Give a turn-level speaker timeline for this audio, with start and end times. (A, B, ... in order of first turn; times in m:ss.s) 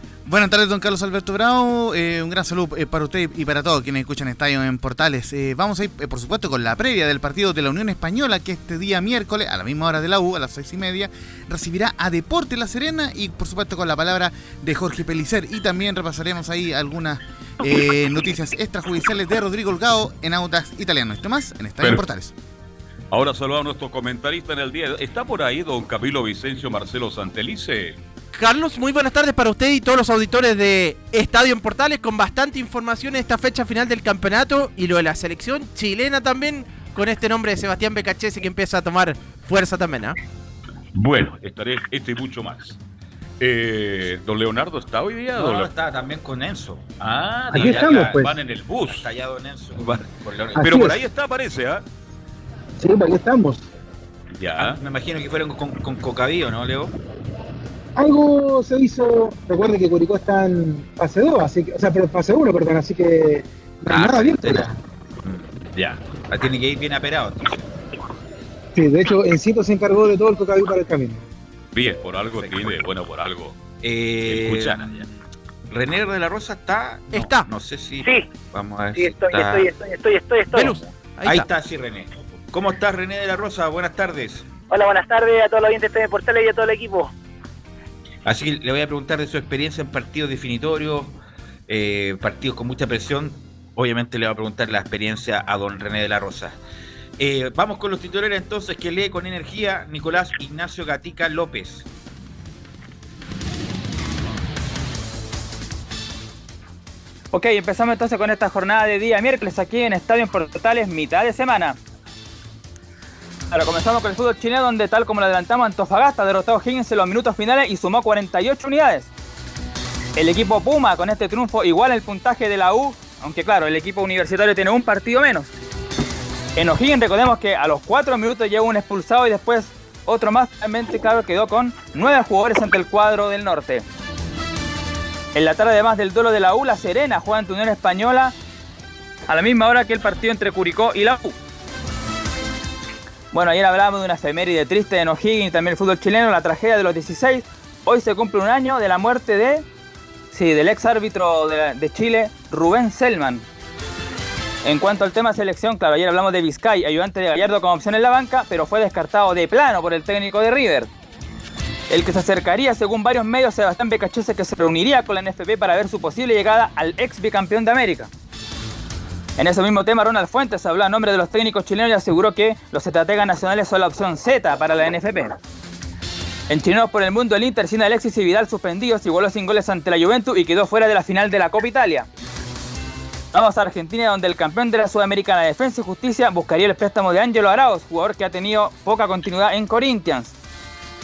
0:00.2-0:22.3 A
0:23.1-0:28.0 B
0:28.3-0:40.2 C
0:40.9-0:42.8 B
0:43.4-0:45.7 B
0:45.4-0:46.8 D
0:47.0-0:49.1 B
0:47.5-0:48.3 E
0:47.5-0:48.3 D
0:48.8-0:50.7 D
0:50.5-0:51.0 E
0:50.6-0:51.8 B
0:52.8-0:53.6 E
0:54.3-0:54.8 B
0:54.6-0:56.9 D
0:58.0-1:04.6 E
1:03.9-1:07.7 D
1:08.7-1:11.2 E
1:11.7-1:13.6 B
1:12.3-1:12.8 D
1:13.8-1:15.2 D
1:14.2-1:15.1 B
1:15.7-1:19.7 D
1:17.1-1:17.5 C
1:18.0-1:18.3 F
1:18.9-1:20.8 F
1:20.5-1:21.4 C
1:21.2-1:24.4 D
1:24.7-1:27.1 F
1:28.2-1:31.2 D
1:31.7-1:36.6 D
1:37.2-1:41.8 D
1:47.3-1:51.8 G
1:53.5-1:59.1 G
2:00.2-2:05.5 G
2:06.6-2:13.8 G
2:15.3-2:18.3 G
2:19.3-2:21.4 G
2:23.3-2:29.6 G
2:30.3-2:33.4 G
2:34.6-2:40.9 G
2:41.9-2:48.1 G
2:49.4-2:55.4 G
2:56.5-3:02.1 G
3:03.3-3:10.3 G